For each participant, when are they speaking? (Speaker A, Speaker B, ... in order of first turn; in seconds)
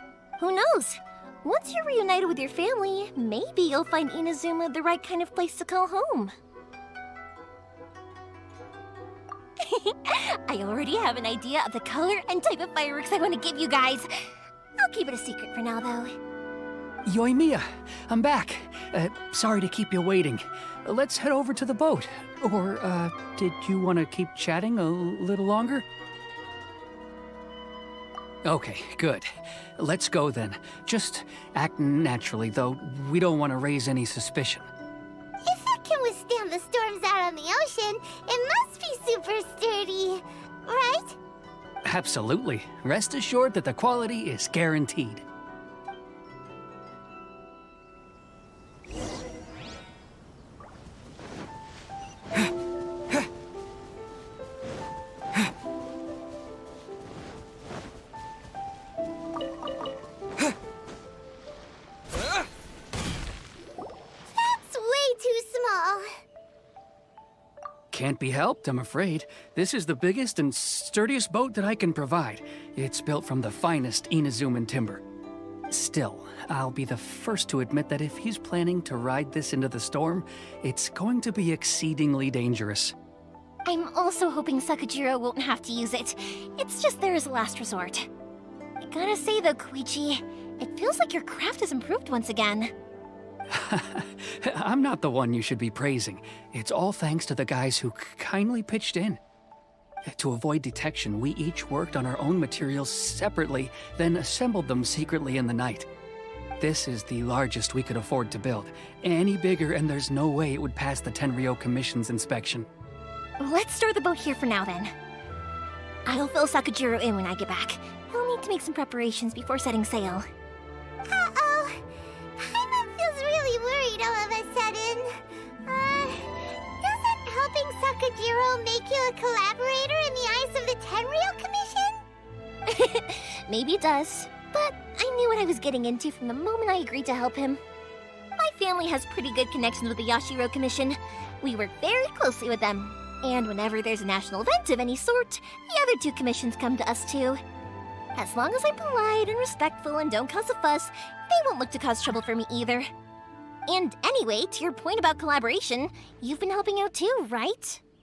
Speaker A: 0.4-6.3, 9.6-16.2, 83.7-88.1, 88.8-92.7, 113.4-114.9, 116.1-120.3, 132.7-137.6, 138.4-147.4, 148.2-152.9, 153.7-157.8
Speaker B: 17.1-25.9, 28.4-34.7, 41.9-45.2, 67.9-75.0, 75.7-83.0, 93.5-99.2, 100.0-105.9, 106.6-112.7
Speaker C: 35.4-41.2, 64.3-66.2, 121.0-121.8, 122.4-132.0